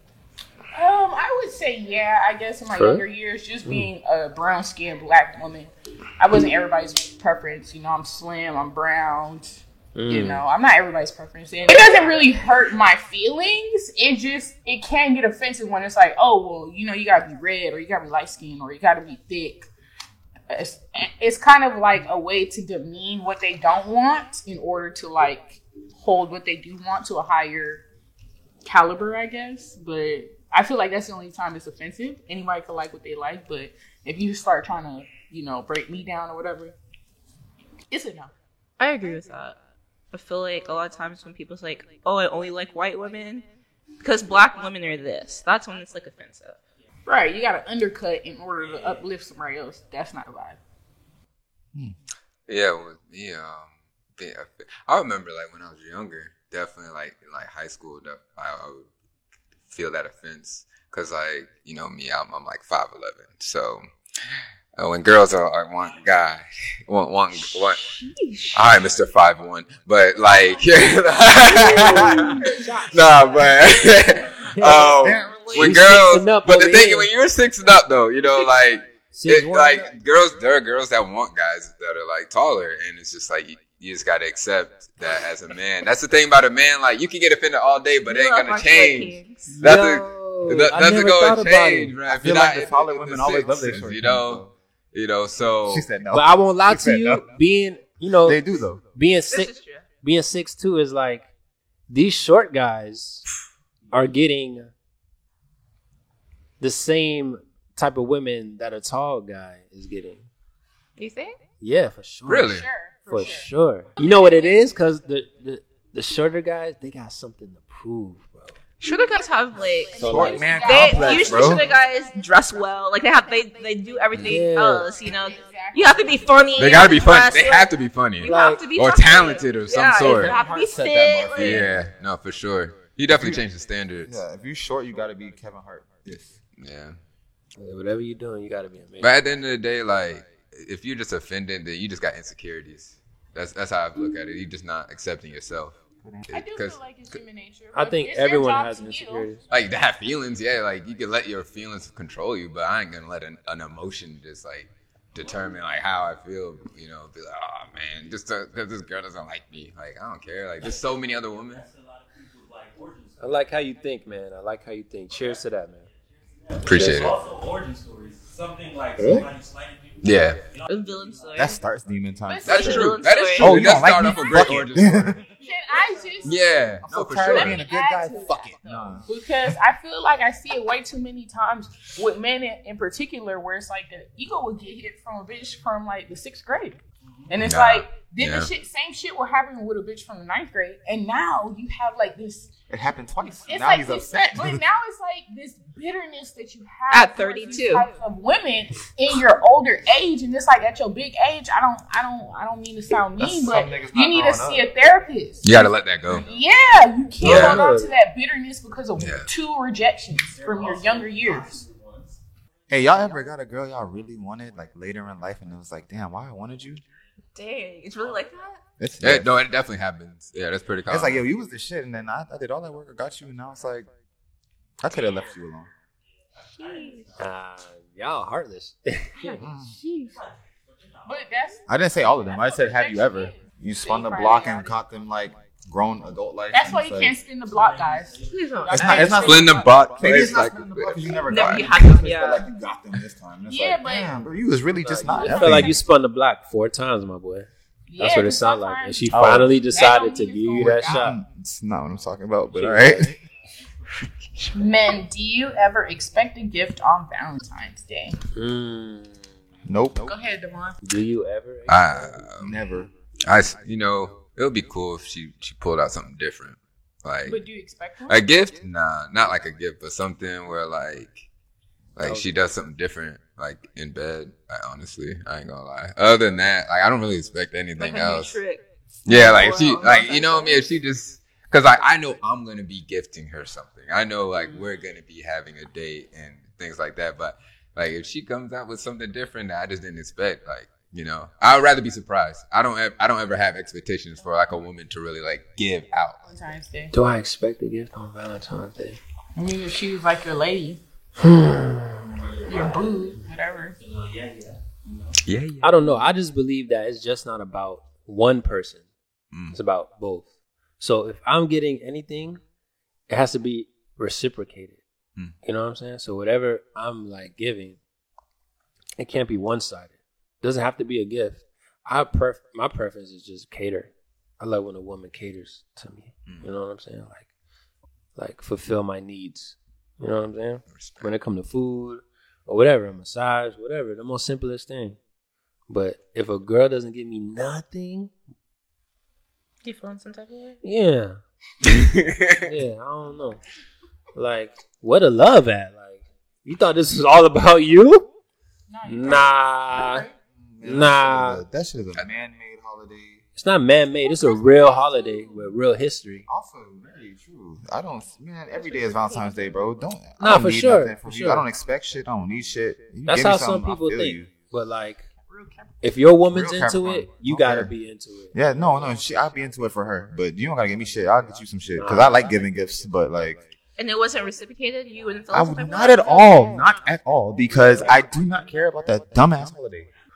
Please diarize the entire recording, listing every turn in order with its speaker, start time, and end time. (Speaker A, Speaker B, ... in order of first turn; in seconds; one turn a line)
Speaker A: 0.7-19.7
Speaker B: 2.7-3.0
Speaker B: 9.9-10.4
Speaker A: 20.5-27.8
Speaker A: 28.6-36.7
Speaker A: 37.9-38.3
Speaker C: 38.8-39.5
Speaker C: 40.1-43.4
Speaker C: 44.0-46.6
Speaker A: 47.0-50.6
Speaker D: 48.6-49.0
Speaker E: 52.5-58.9
Speaker E: 59.6-63.9
Speaker E: 64.8-67.8
Speaker D: 65.8-66.1
Speaker C: 67.3-68.6
Speaker E: 68.5-95.9
Speaker F: 71.8-72.3
Speaker B: 71.8-73.6
Speaker B: 74.4-75.0
Speaker F: 75.0-75.8
Speaker C: 75.1-75.9
Speaker B: 75.5-77.1
Speaker B: 79.1-80.0
Speaker C: 88.0-89.5
Speaker B: 89.5-92.0
Speaker F: 92.0-94.5
Speaker F: 95.7-97.3
Speaker B: 96.1-98.4
Speaker F: 98.2-98.8
Speaker B: 98.9-101.3
Speaker C: 99.3-99.9
Speaker B: 101.9-103.2
Speaker B: 103.9-104.7
Speaker B: 106.6-110.2
Speaker C: 111.0-111.4
Speaker B: 111.6-118.5
Speaker E: 112.2-112.7
Speaker A: 112.5-113.5
Speaker A: 114.0-114.5
Speaker C: 118.8-131.7
Speaker A: 119.9-122.1
Speaker B: 119.9-120.6
Speaker F: 120.0-121.7
Speaker B: 124.2-124.9
Speaker A: 125.0-127.1
Speaker E: 126.5-130.4
Speaker B: 128.2-128.6
Speaker F: 129.9-131.8
Speaker E: 131.3-134.2
Speaker F: 133.1-133.4
Speaker F: 134.1-136.4
Speaker E: 136.6-137.0
Speaker B: 137.6-139.1
Speaker E: 139.0-146.8
Speaker A: 146.3-149.3
Speaker B: 147.7-149.4
Speaker E: 149.5-161.6
Speaker D: 160.6-163.7
Speaker B: 163.2-165.8
Speaker D: 165.1-171.6
Speaker E: 166.6-167.2
Speaker F: 169.0-169.2
Speaker E: 170.0-170.4
Speaker C: 170.7-171.6
Speaker F: 171.3-175.2
Speaker A: 172.2-173.0
Speaker E: 172.4-175.2
Speaker C: 172.4-173.8
Speaker D: 175.1-176.8
Speaker A: 175.4-176.4
Speaker E: 176.2-177.7
Speaker F: 176.8-179.6
Speaker A: 177.2-192.5
Speaker D: 187.1-187.4
Speaker E: 187.4-188.5
Speaker F: 192.7-194.6
Speaker A: 193.4-211.6
Speaker C: 196.9-197.9
Speaker F: 203.2-204.7
Speaker E: 205.4-206.3
Speaker D: 206.1-206.4
Speaker B: 207.2-207.9
Speaker E: 207.2-207.6
Speaker E: 209.0-209.3
Speaker D: 210.2-212.2
Speaker F: 212.7-216.8
Speaker C: 217.3-218.6
Speaker D: 217.9-218.3
Speaker F: 218.8-219.3
Speaker E: 219.0-221.2
Speaker F: 220.9-223.9
Speaker F: 224.8-225.7
Speaker D: 224.9-225.4
Speaker D: 226.3-227.3
Speaker C: 226.5-227.1
Speaker B: 227.2-229.3
Speaker F: 229.4-229.8
Speaker C: 229.8-230.1
Speaker D: 230.1-231.6
Speaker A: 231.1-234.7
Speaker F: 231.7-237.1
Speaker A: 236.5-239.9
Speaker D: 237.4-239.0
Speaker C: 238.3-239.1
Speaker F: 238.7-245.8
Speaker E: 239.0-241.9
Speaker C: 241.3-242.4
Speaker A: 243.5-244.2
Speaker B: 244.8-251.2
Speaker A: 245.0-245.8
Speaker A: 247.9-251.2
Speaker F: 249.1-249.6
Speaker F: 250.6-253.1
Speaker B: 252.5-253.1
Speaker A: 254.5-258.2
Speaker B: 258.3-259.3
Speaker F: 259.6-260.1
Speaker A: 260.1-260.8
Speaker B: 260.8-262.3
Speaker E: 261.7-262.6
Speaker F: 262.4-262.9
Speaker E: 263.2-267.4
Speaker A: 267.2-268.2
Speaker E: 268.1-271.3
Speaker E: 271.9-278.4
Speaker B: 272.0-272.3
Speaker C: 277.8-280.6
Speaker E: 279.1-296.2
Speaker A: 296.2-296.9
Speaker B: 296.9-299.0
Speaker A: 299.4-300.8
Speaker B: 301.2-302.2
Speaker D: 302.2-303.2
Speaker A: 302.5-303.8
Speaker D: 303.8-305.2
Speaker E: 305.2-305.8
Speaker B: 305.6-308.8
Speaker E: 309.3-309.6
Speaker B: 309.5-310.3
Speaker B: 310.8-312.4
Speaker B: 313.1-314.8
Speaker B: 315.4-317.8
Speaker B: 319.0-327.2
Speaker B: 328.1-335.0
Speaker E: 330.7-331.1
Speaker B: 335.7-338.1
Speaker C: 339.6-340.6
Speaker B: 340.6-341.2
Speaker E: 341.6-342.5
Speaker B: 342.4-343.4
Speaker B: 344.1-348.1
Speaker A: 348.7-350.1
Speaker B: 348.9-350.1
Speaker F: 350.3-353.2
Speaker B: 350.6-351.4
Speaker B: 353.4-356.2
Speaker A: 354.0-355.5
Speaker F: 356.3-364.3
Speaker A: 358.5-359.6
Speaker B: 360.2-361.5
Speaker B: 363.1-365.1
Speaker A: 365.2-365.7
Speaker B: 365.8-368.4
Speaker F: 366.3-367.7
Speaker F: 368.3-373.4
Speaker B: 371.8-372.3
Speaker C: 373.8-376.7
Speaker F: 375.3-379.9
Speaker D: 377.6-378.1